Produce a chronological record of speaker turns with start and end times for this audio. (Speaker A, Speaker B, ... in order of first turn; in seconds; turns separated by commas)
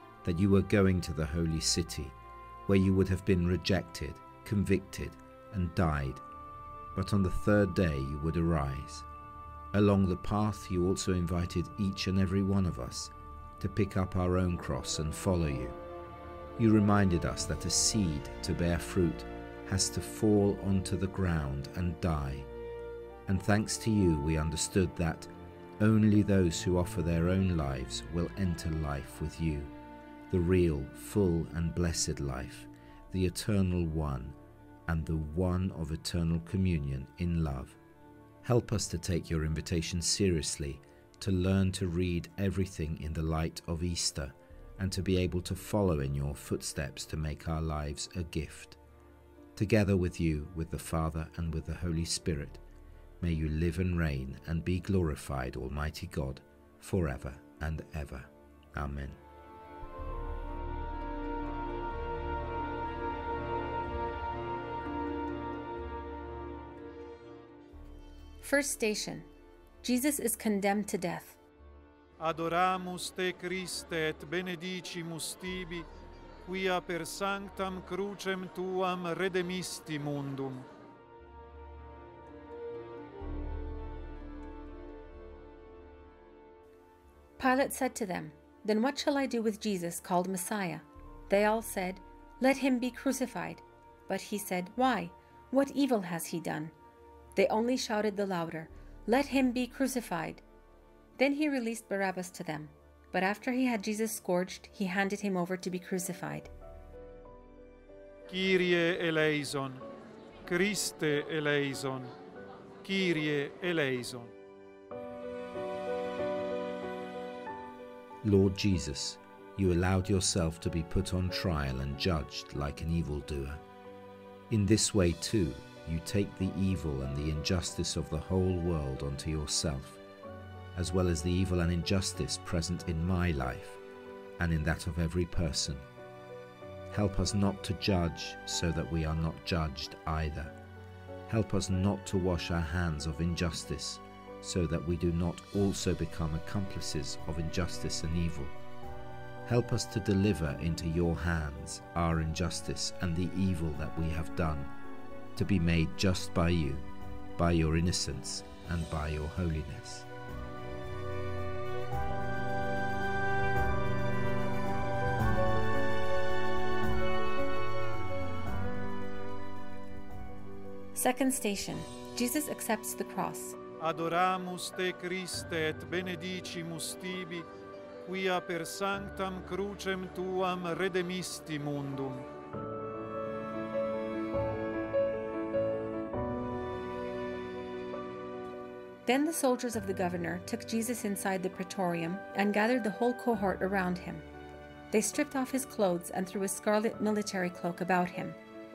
Speaker A: 0.2-6.2, Speaker A: 6.9-9.1, Speaker A: 9.7-15.8, Speaker A: 16.6-22.5, Speaker A: 23.3-29.7, Speaker A: 30.3-37.8, Speaker A: 38.4-48.8, Speaker A: 49.5-52.6, Speaker A: 53.2-59.2, Speaker B: 68.4-69.3, Speaker B: 69.8-71.4, Speaker C: 72.2-75.9, Speaker C: 76.5-80.7, Speaker B: 87.4-96.7, Speaker B: 97.3-100.4, Speaker B: 101.2-106.5, Speaker C: 108.3-109.8, Speaker C: 110.5-112.1, Speaker C: 112.8-114.3, Speaker A: 118.2-123.6, Speaker A: 124.5-130.0, Speaker A: 130.7-133.8, Speaker A: 134.4-135.8, Speaker A: 136.9-140.5, Speaker A: 141.3-148.5, Speaker A: 149.4-154.7, Speaker A: 155.3-156.8, Speaker A: 157.4-160.1, Speaker B: 170.9-173.6, Speaker C: 173.8-177.5, Speaker C: 178.1-182.2, Speaker B: 189.1-194.2, Speaker B: 194.9-198.4